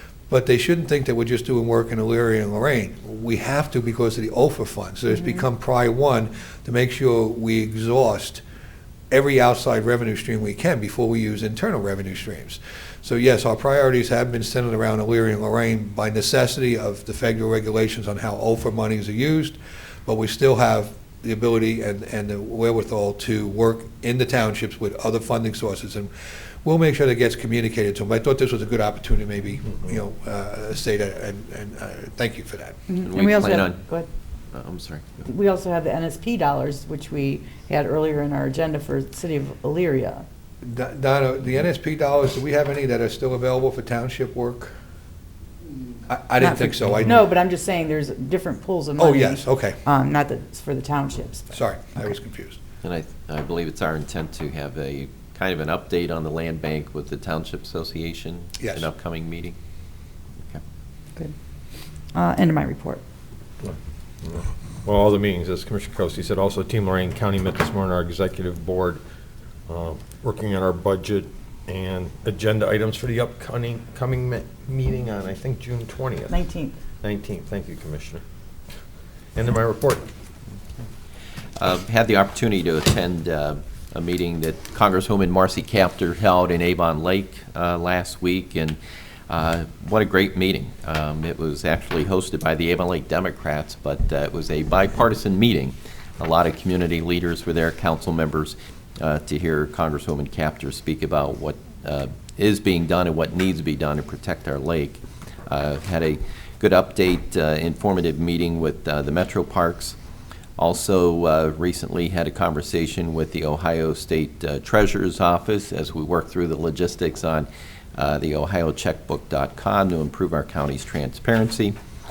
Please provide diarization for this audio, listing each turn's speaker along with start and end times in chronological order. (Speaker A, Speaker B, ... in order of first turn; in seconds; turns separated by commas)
Speaker A: 0.3-8.4, Speaker B: 5.1-5.4, Speaker A: 9.1-26.1, Speaker A: 26.6-32.8, Speaker B: 32.9-34.1, Speaker C: 33.0-33.8, Speaker C: 34.5-35.2, Speaker B: 35.2-40.2, Speaker A: 40.6-44.7, Speaker A: 46.1-47.2, Speaker B: 46.4-51.6, Speaker A: 49.0-49.8, Speaker A: 51.5-52.6, Speaker C: 52.8-59.5, Speaker A: 58.6-58.9, Speaker B: 62.1-63.0, Speaker D: 63.6-69.0, Speaker D: 69.7-76.4, Speaker B: 76.3-76.8, Speaker D: 77.0-78.2, Speaker D: 79.3-80.1, Speaker C: 81.6-88.8, Speaker C: 89.3-110.0, Speaker C: 110.6-121.8